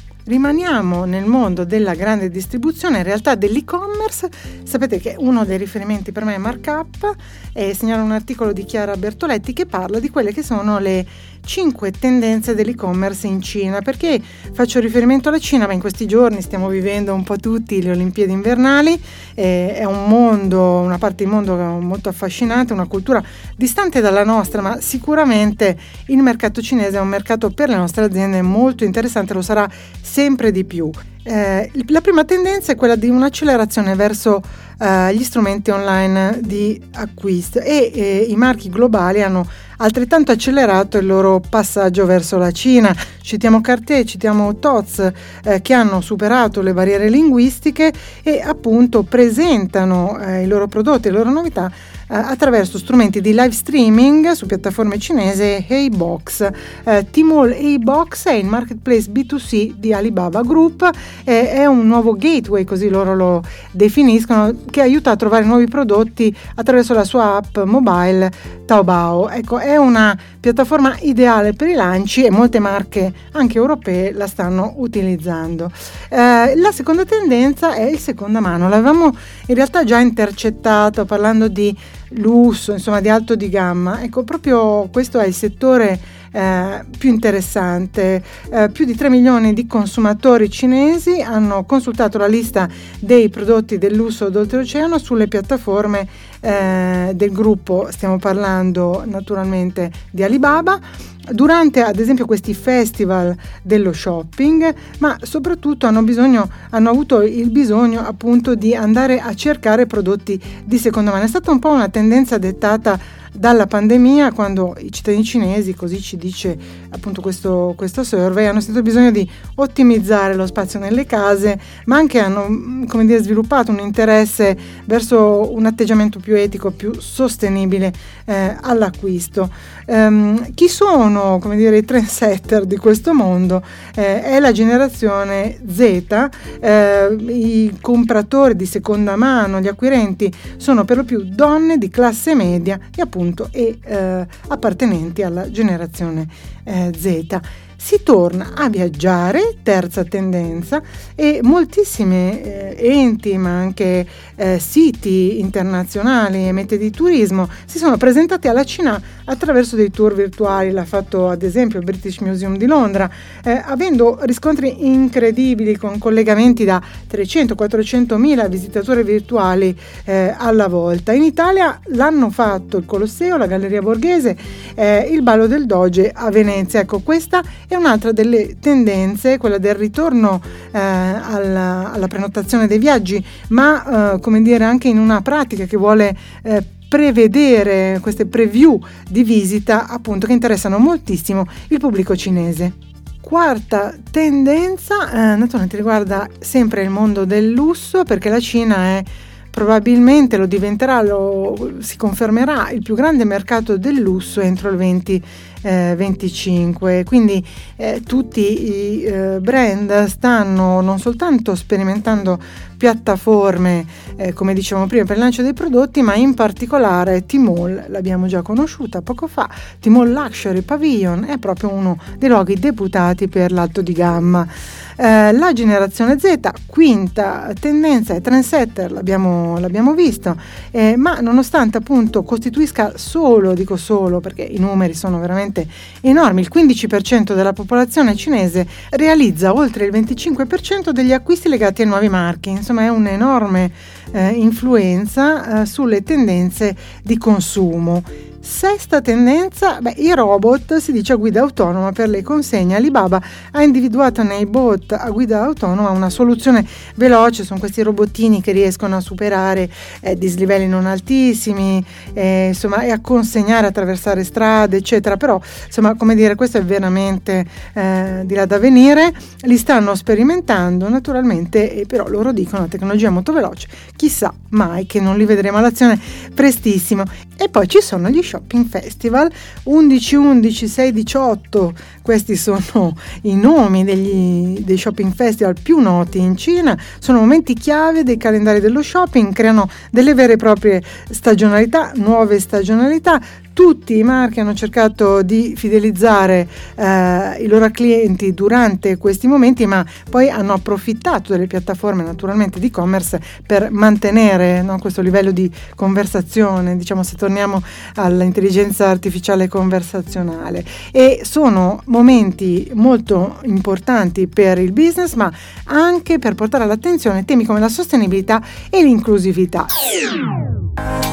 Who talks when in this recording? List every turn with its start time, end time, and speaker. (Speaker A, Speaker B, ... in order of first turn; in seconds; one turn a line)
Speaker A: 0.2-319.7